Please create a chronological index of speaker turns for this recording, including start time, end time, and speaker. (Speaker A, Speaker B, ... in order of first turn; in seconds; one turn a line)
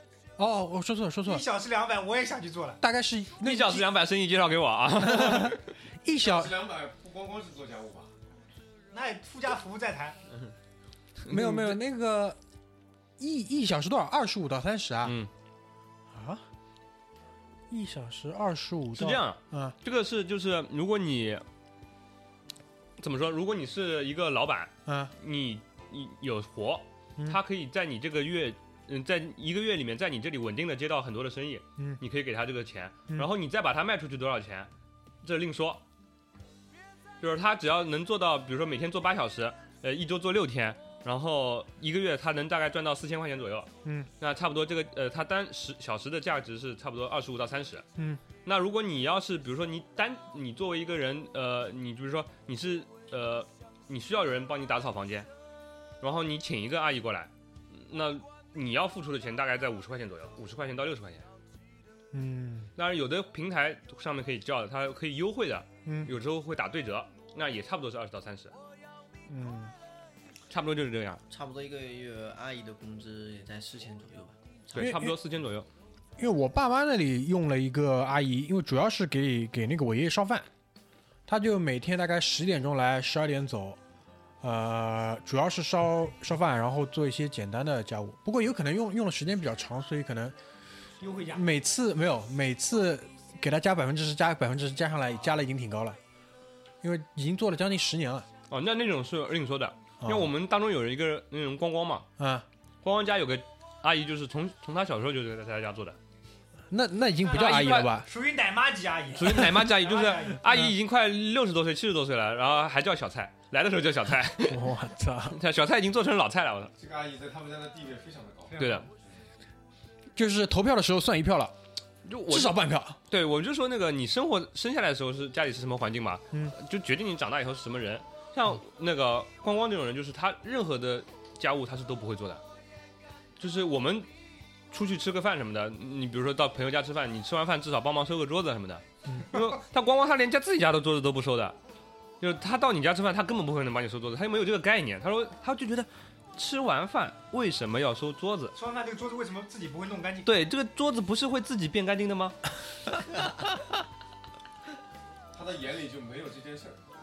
Speaker A: 0.4-1.4
Speaker B: 1.2-2.8
Speaker A: 2.8-3.9
Speaker C: 3.4-5.7
Speaker A: 5.0-6.5
Speaker D: 6.2-8.1
Speaker B: 8.9-10.2
Speaker C: 11.2-11.8
Speaker A: 11.3-12.4
Speaker A: 13.2-15.2
Speaker C: 15.0-15.3
Speaker A: 16.1-16.4
Speaker A: 17.7-19.7
Speaker C: 18.9-21.4
Speaker C: 23.0-34.7
Speaker A: 24.9-25.1
Speaker C: 35.2-35.8
Speaker C: 37.2-43.7
Speaker A: 43.8-44.1
Speaker C: 44.2-47.8
Speaker A: 48.0-48.2
Speaker C: 48.4-55.3
Speaker C: 56.0-61.2
Speaker A: 62.1-62.7
Speaker C: 62.8-68.5
Speaker A: 65.8-66.1
Speaker A: 69.3-69.7
Speaker C: 70.5-71.2
Speaker E: 71.3-74.9
Speaker C: 74.7-75.7
Speaker A: 74.8-75.1
Speaker A: 76.2-80.5
Speaker A: 81.3-83.8
Speaker A: 84.4-90.3
Speaker B: 91.0-91.5
Speaker A: 91.3-96.0
Speaker A: 96.8-98.3
Speaker C: 98.5-102.0
Speaker A: 100.0-100.3
Speaker A: 102.2-102.4
Speaker C: 102.8-106.0
Speaker A: 106.7-108.1
Speaker B: 107.3-110.4
Speaker C: 107.3-107.9
Speaker C: 109.2-116.7
Speaker A: 110.5-110.7
Speaker A: 114.5-115.3
Speaker D: 116.8-119.2
Speaker B: 118.5-118.8
Speaker C: 118.6-118.8
Speaker A: 120.2-121.5
Speaker C: 122.0-122.5
Speaker A: 122.3-123.0
Speaker C: 123.1-132.4
Speaker C: 133.4-134.1
Speaker C: 134.7-141.6
Speaker C: 142.2-148.5
Speaker B: 148.5-150.3
Speaker C: 150.2-152.4
Speaker D: 155.3-156.8